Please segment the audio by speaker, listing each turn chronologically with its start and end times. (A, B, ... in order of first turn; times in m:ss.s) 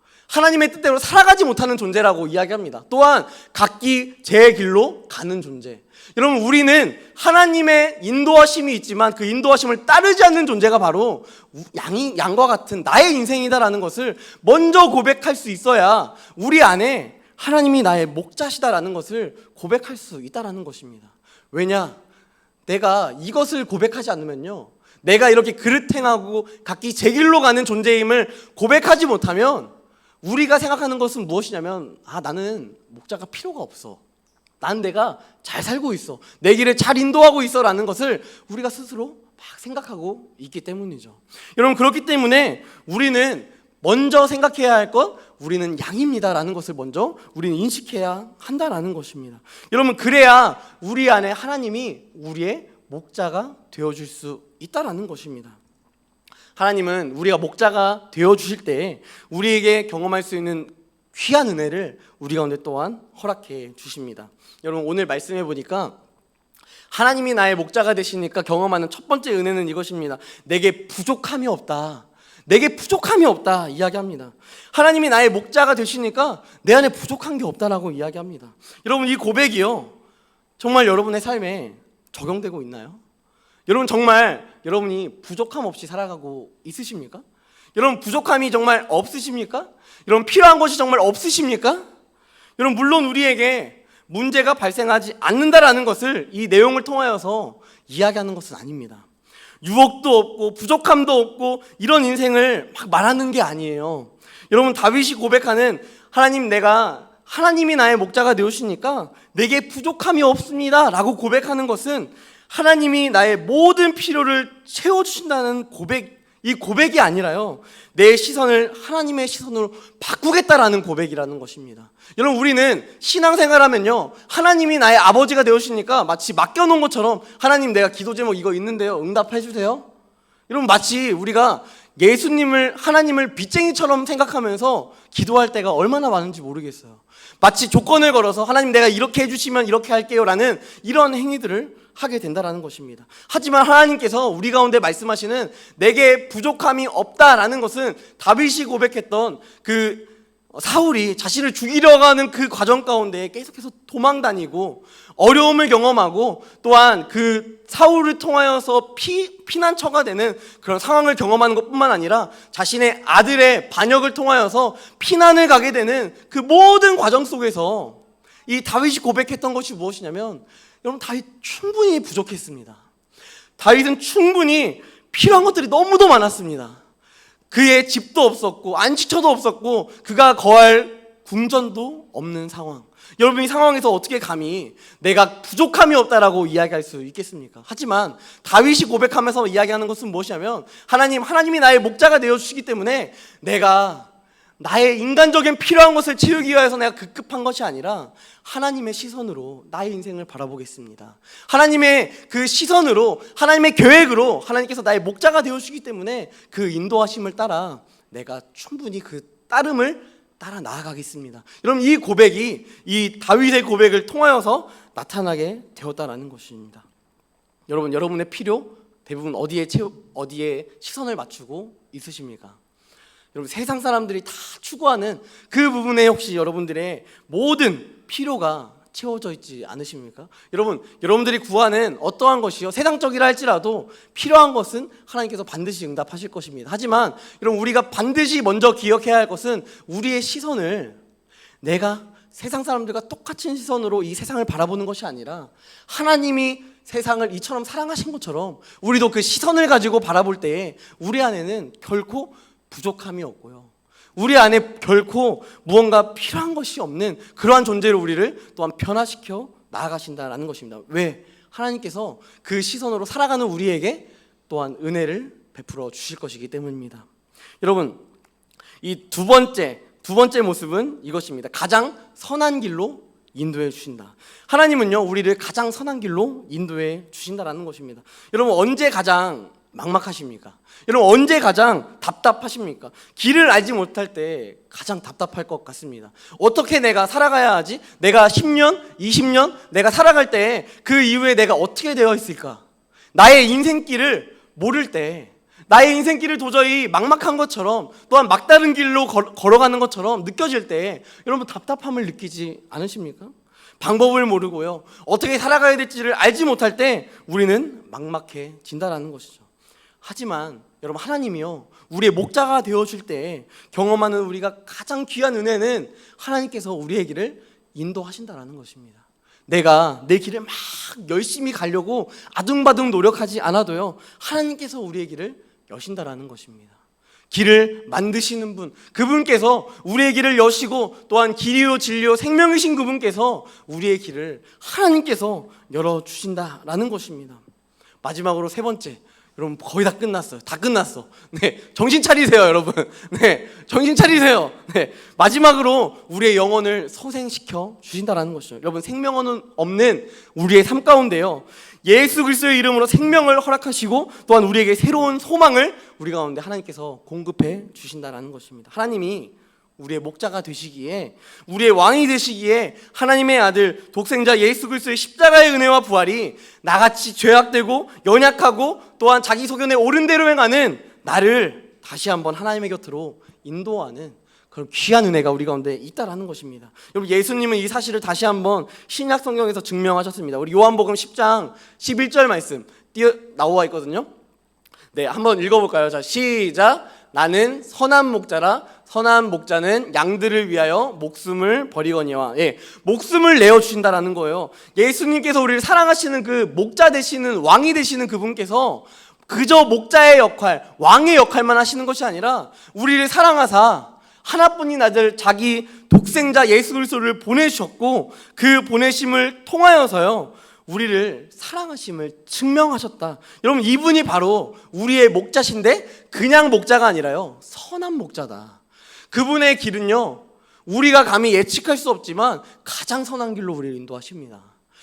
0:00.3-0:22.0 A
0:22.7-0:34.0 A
0:34.6-0:55.6 A
0:56.6-1:06.0 A
1:06.9-1:19.9 A
1:20.6-1:23.0 A
1:23.7-1:27.2 A
1:27.7-1:31.8 A
1:32.6-1:39.0 A
1:39.6-2:09.9 A
2:10.5-2:52.8 A
2:53.6-2:56.8 A
2:57.5-3:36.8 A
3:37.7-3:42.6 A
3:43.3-4:01.0 A
4:01.6-4:27.1 A
4:27.6-4:28.0 A
4:28.8-4:52.6 A
4:53.1-5:09.4 A
5:10.0-5:26.7 A
5:27.3-5:37.4 A
5:38.0-6:24.1 A
6:24.9-6:58.6 A
6:59.1-7:04.5 A